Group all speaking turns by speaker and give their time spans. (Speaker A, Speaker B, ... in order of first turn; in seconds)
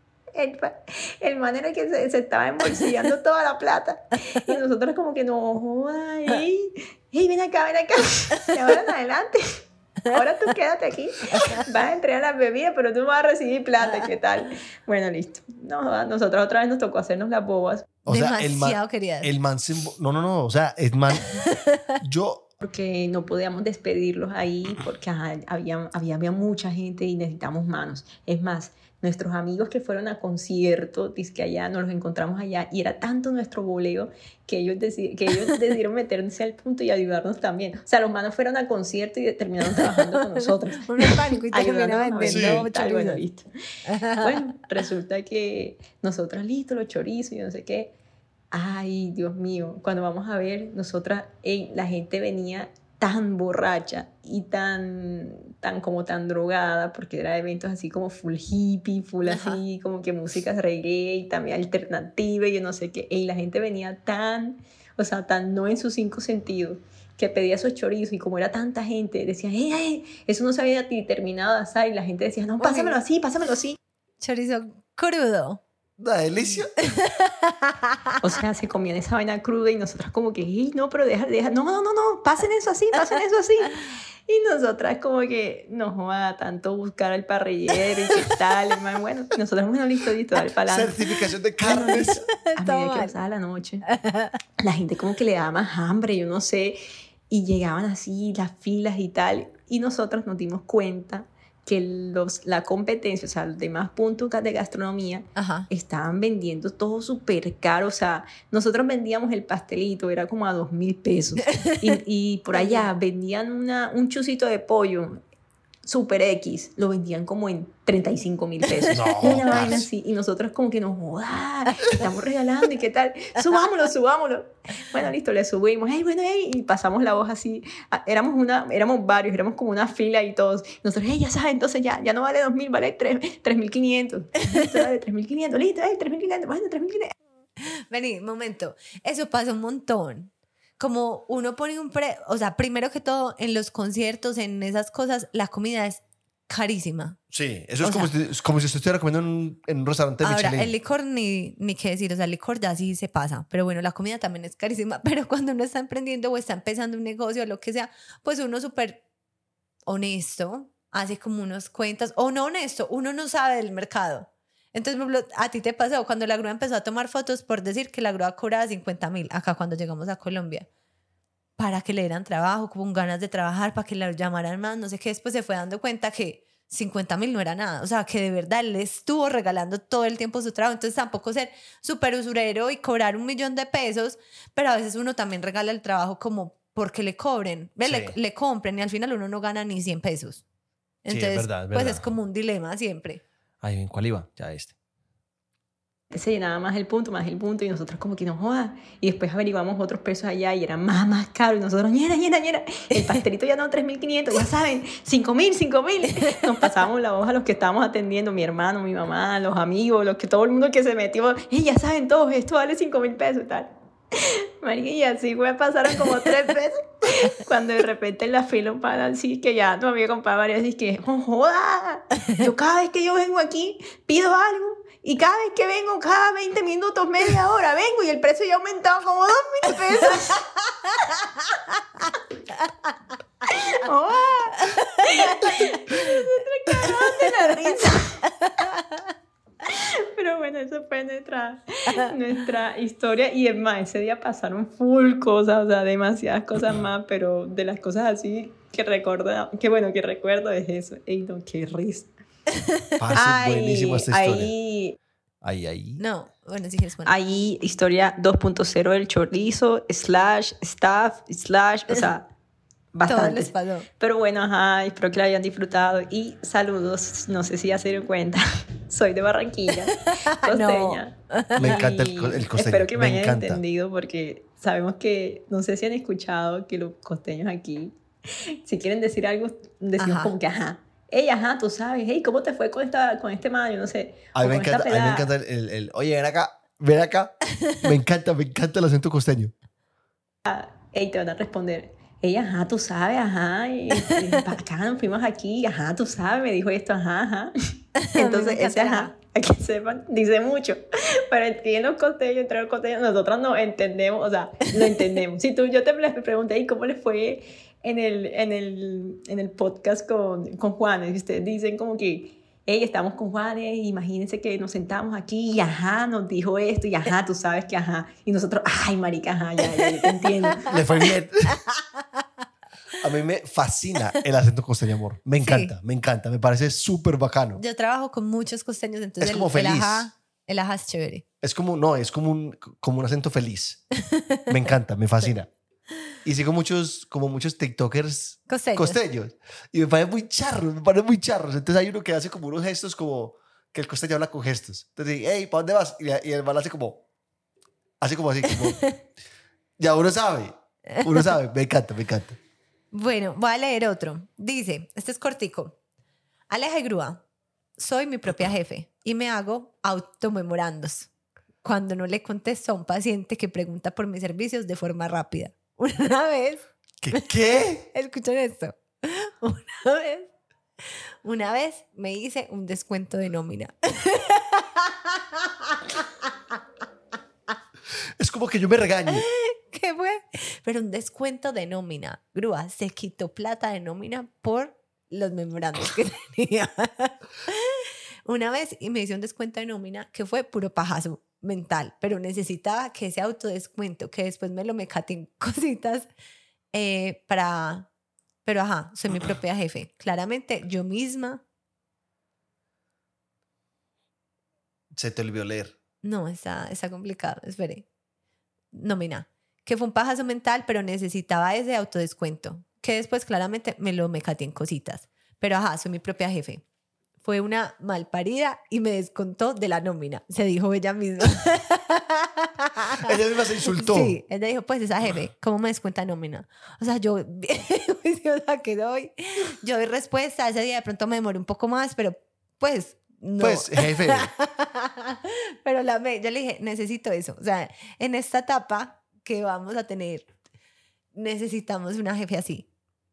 Speaker A: 0.3-17.9, 22.6-47.9, 48.5-73.8, 78.2-93.9, 94.6-115.2, 115.8-137.2, 196.1-230.6, 233.4-238.2, 239.6-252.1, 253.1-255.0, 257.1-262.3, 262.9-285.3, 290.5-320.8
Speaker B: 11.3-11.6, 18.1-19.3, 21.4-21.9, 40.0-43.2, 43.9-44.5, 59.2-59.6, 72.6-73.0, 74.2-75.6, 76.8-78.2, 92.4-93.1, 93.9-94.4, 105.4-105.7, 111.5-112.0, 112.5-112.9, 118.8-119.8, 134.5-134.8, 137.6-147.2, 147.8-148.1, 150.2-159.0, 159.9-170.7, 171.6-190.4, 191.1-193.2, 234.8-236.1, 237.9-239.0, 256.0-257.2, 263.1-263.9, 270.2-271.7, 280.0-280.3, 294.0-294.4, 298.0-299.1, 319.8-320.3, 321.7-322.2, 325.4-325.7, 327.6-331.2, 334.0-334.5, 338.5-339.0, 348.6-348.9, 350.9-351.3, 352.9-355.8, 356.5-357.2, 357.8-361.1, 361.6-367.3, 367.9-370.3, 371.2-376.3, 379.1-396.1, 396.7-397.9, 398.4-401.4, 406.0-407.9, 408.7-416.6, 417.2-423.1, 423.7-440.3, 441.1-442.7
Speaker C: 18.1-21.4, 22.0-22.5, 42.3-42.6, 76.0-76.8, 90.7-92.2, 118.9-119.9, 147.3-150.7, 187.8-188.2, 191.1-192.1, 193.6-194.7, 253.0-254.5, 255.4-256.0, 271.6-273.6, 284.4-289.5, 320.7-321.6, 323.0-327.6, 329.2-330.1, 331.4-333.8, 334.5-335.5, 336.2-347.0, 348.0-348.8, 349.8-352.4, 367.0-367.9, 378.2-379.3, 404.9-405.7, 423.0-424.2, 433.4-434.3